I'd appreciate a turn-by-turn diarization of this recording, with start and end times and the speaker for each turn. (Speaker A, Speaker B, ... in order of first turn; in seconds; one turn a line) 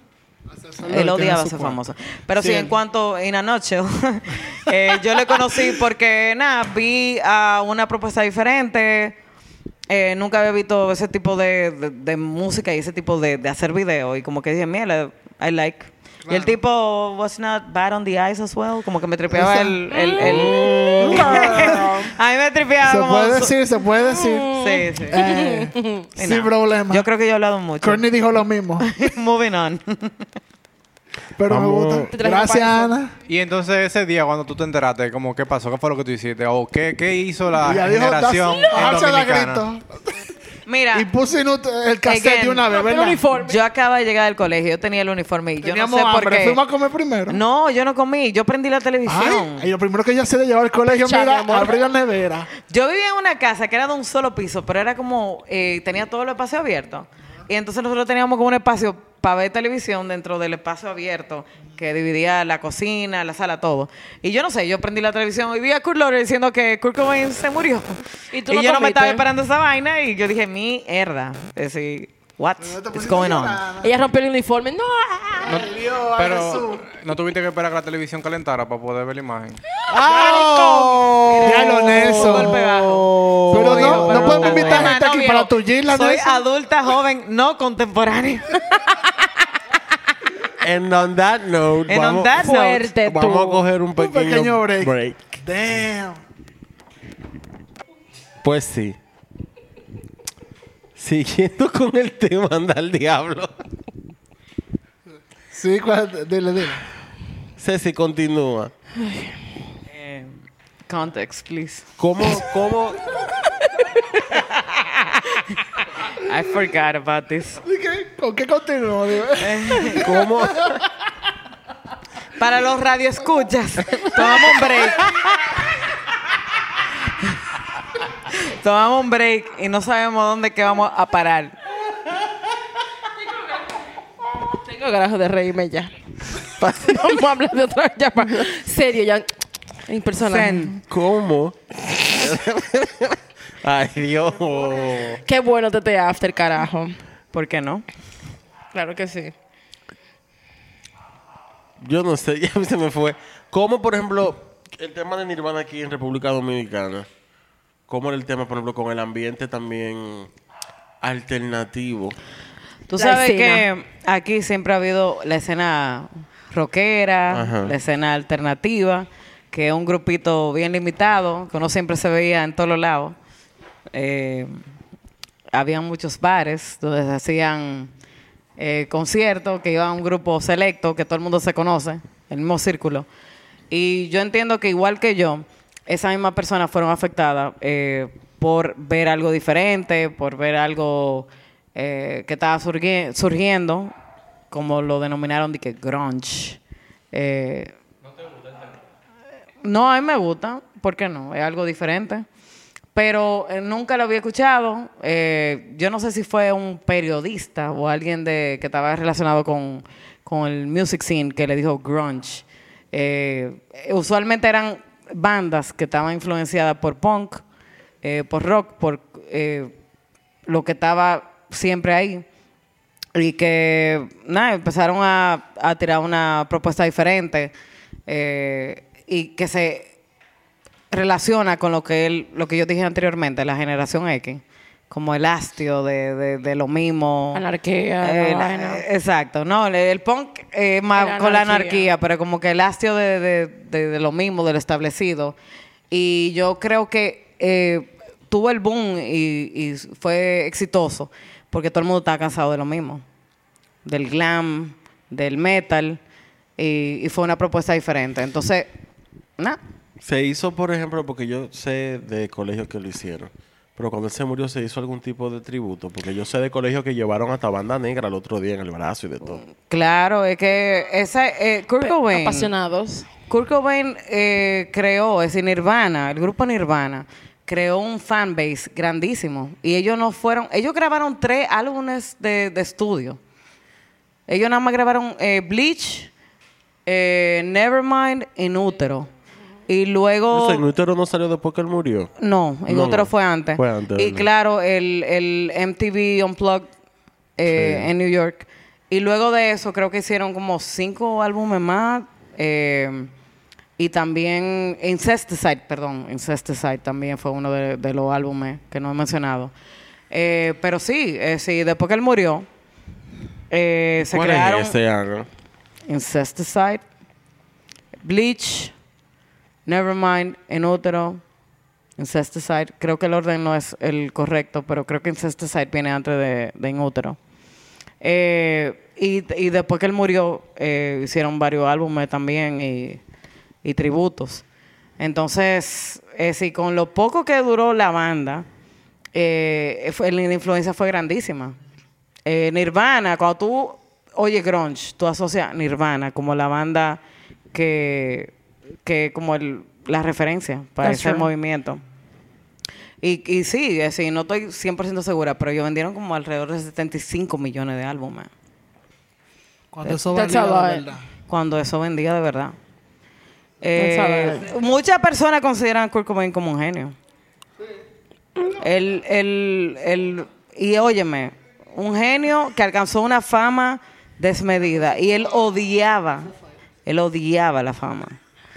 Speaker A: 0.5-1.8
Speaker B: 0.8-9.2
Speaker A: 2.4-2.8
Speaker B: 9.9-23.6
Speaker A: 16.2-16.6
Speaker A: 19.3-19.8
Speaker C: 19.9-22.1
Speaker D: 20.2-21.3
Speaker A: 21.1-21.9
Speaker A: 22.8-24.5
Speaker C: 24.0-26.1
Speaker B: 24.5-25.4
Speaker A: 25.1-27.1
Speaker B: 26.2-28.0
Speaker A: 27.8-28.9
Speaker B: 28.8-30.2
Speaker A: 31.4-33.1
Speaker D: 31.5-32.1
Speaker C: 32.1-32.9
Speaker E: 33.3-39.6
Speaker A: 37.6-40.1
Speaker B: 40.7-41.1
Speaker A: 40.9-43.2
Speaker B: 42.0-42.7
Speaker C: 42.7-43.6
Speaker B: 43.3-46.6
Speaker A: 45.6-47.4
Speaker B: 47.3-49.7
Speaker A: 49.1-52.5
Speaker C: 50.9-51.8
Speaker B: 52.7-73.6
Speaker C: 68.3-69.2
Speaker A: 72.6-73.9
Speaker C: 73.8-75.7
Speaker A: 75.4-76.9
Speaker E: 75.5-79.6
Speaker A: 80.0-82.6
Speaker D: 80.0-84.9
Speaker B: 80.0-89.3
Speaker A: 83.5-86.5
Speaker D: 90.6-92.4
Speaker B: 91.9-92.9
Speaker C: 92.4-93.7
Speaker D: 93.0-95.3
Speaker A: 94.0-96.2
Speaker D: 98.4-99.0
Speaker D: 101.0-103.6
Speaker A: 105.5-106.8
Speaker D: 107.6-108.7
Speaker C: 109.0-109.4
Speaker B: 109.9-111.9
Speaker D: 112.0-113.0
Speaker B: 114.3-115.6
Speaker B: 116.1-117.6
Speaker A: 117.6-120.8
Speaker B: 119.4-120.1
Speaker D: 120.0-120.7
Speaker B: 122.4-125.8
Speaker B: 128.2-131.6
Speaker C: 134.4-135.9
Speaker D: 136.6-137.1
Speaker C: 136.8-139.3
Speaker C: 139.9-140.8
Speaker B: 140.2-140.8
Speaker D: 140.8-145.2
Speaker C: 145.2-147.0
Speaker B: 147.3-147.8
Speaker C: 148.7-149.3
Speaker D: 151.8-157.1
Speaker D: 157.9-160.3
Speaker D: 161.0-162.2
Speaker B: 162.9-173.2
Speaker C: 162.9-163.7
Speaker D: 167.3-167.8
Speaker B: 173.9-174.6
Speaker B: 175.5-177.9
Speaker B: 178.6-183.1
Speaker B: 183.7-193.9
Speaker B: 194.5-196.6
Speaker B: 197.1-197.7
Speaker B: 199.6-202.3
Speaker B: 202.9-217.4
Speaker B: 218.0-219.7
Speaker B: 220.5-222.2
Speaker B: 223.2-227.5
Speaker B: 228.1-229.9
Speaker B: 230.9-237.4
Speaker C: 237.3-238.8
Speaker B: 238.0-245.3
Speaker C: 241.0-241.9
Speaker B: 245.9-253.0
Speaker B: 253.8-256.0
Speaker B: 256.6-258.7
Speaker D: 260.0-269.4
Speaker B: 269.6-272.5
Speaker C: 271.8-273.1
Speaker B: 273.3-283.2
Speaker B: 284.3-286.1
Speaker B: 286.9-289.1
Speaker B: 289.7-290.6
Speaker D: 290.3-292.1
Speaker B: 292.2-296.7
Speaker D: 292.7-294.3
Speaker B: 297.4-303.1
Speaker D: 297.5-297.9
Speaker B: 303.8-309.5
Speaker B: 310.1-312.5
Speaker B: 313.5-314.8
Speaker D: 314.1-315.3
Speaker B: 315.9-316.8
Speaker B: 318.0-318.7
Speaker B: 319.7-321.2
Speaker B: 322.0-327.2
Speaker B: 328.0-333.0
Speaker B: 333.6-334.4
Speaker B: 335.0-338.5
Speaker B: 339.1-341.6
Speaker B: 342.3-347.0
Speaker B: 347.5-348.3
Speaker B: 348.9-351.8
Speaker C: 350.8-351.3
Speaker B: 353.0-358.3
Speaker A: 359.7-361.0
Speaker C: 360.1-360.9
Speaker B: 361.3-362.6
Speaker B: 363.6-367.0
Speaker C: 363.8-364.5
Speaker B: 368.5-376.3
Speaker B: 376.9-378.2